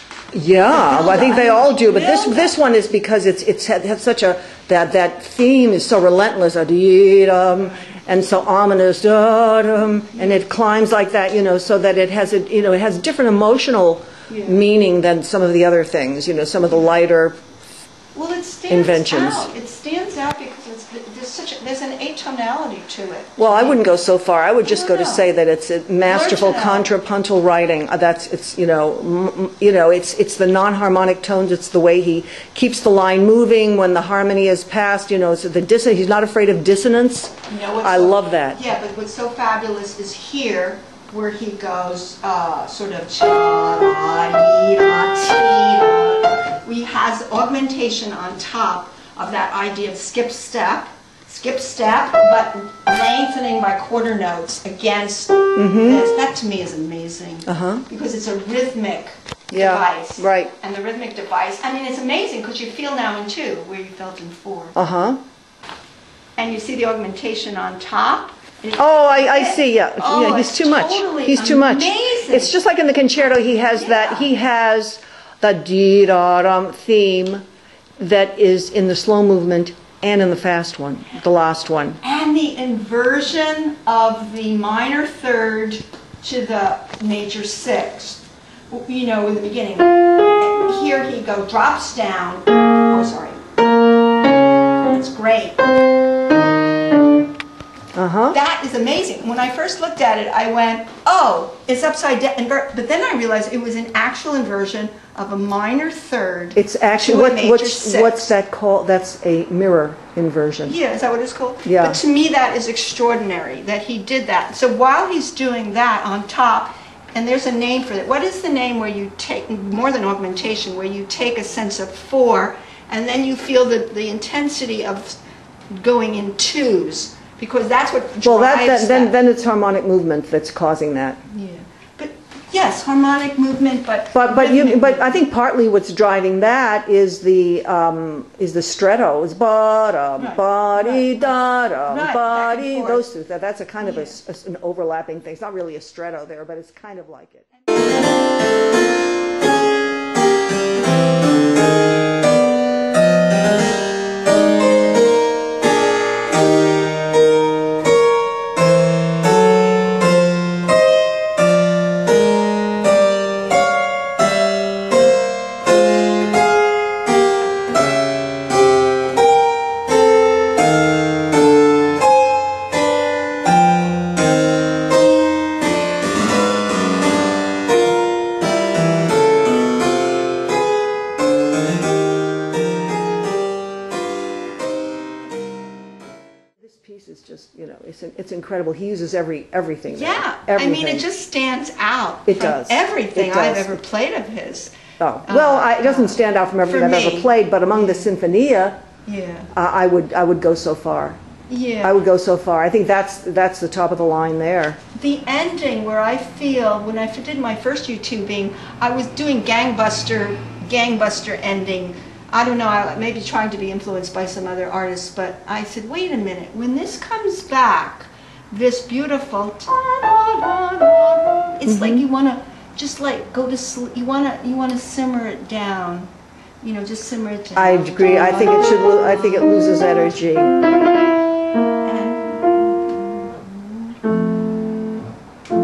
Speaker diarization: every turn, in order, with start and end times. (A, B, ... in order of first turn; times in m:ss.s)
0:00.3-0:17.4 A
0:00.7-0:02.6 B
0:10.2-0:10.4 B
0:14.3-0:14.6 B
0:18.1-0:23.8 B
0:18.7-0:19.5 A
0:23.4-0:38.6 A
0:24.6-0:25.2 B
0:26.0-0:26.9 B
0:37.5-1:04.8 B
0:55.5-0:56.0 A
0:57.4-0:57.8 A
0:59.5-1:00.5 A
1:04.8-1:05.2 A
1:06.4-1:12.6 B
1:08.8-1:17.4 A
1:13.5-1:14.3 B
1:18.0-1:22.0 A
1:22.0-1:33.4 B
1:34.8-1:35.6 B
1:37.9-1:38.4 A
1:38.3-1:48.3 B
1:46.6-1:50.8 A
1:50.6-2:05.2 B
1:51.6-1:52.0 A
2:05.7-2:09.1 B
2:08.2-2:11.2 A
2:11.3-2:15.2 B
2:14.1-2:27.4 A
2:20.2-2:23.0 B
2:23.8-2:24.2 B
3:06.6-3:11.0 A
3:09.9-3:18.1 B
3:12.3-3:13.8 A
3:15.0-3:18.8 A
3:19.0-3:19.5 B
3:19.5-3:21.2 A
3:21.5-3:22.0 B
3:21.8-3:24.8 A
3:25.0-3:46.1 B
3:41.7-3:42.0 A
3:46.6-3:49.3 B
3:47.6-3:50.6 A
3:51.8-3:54.0 B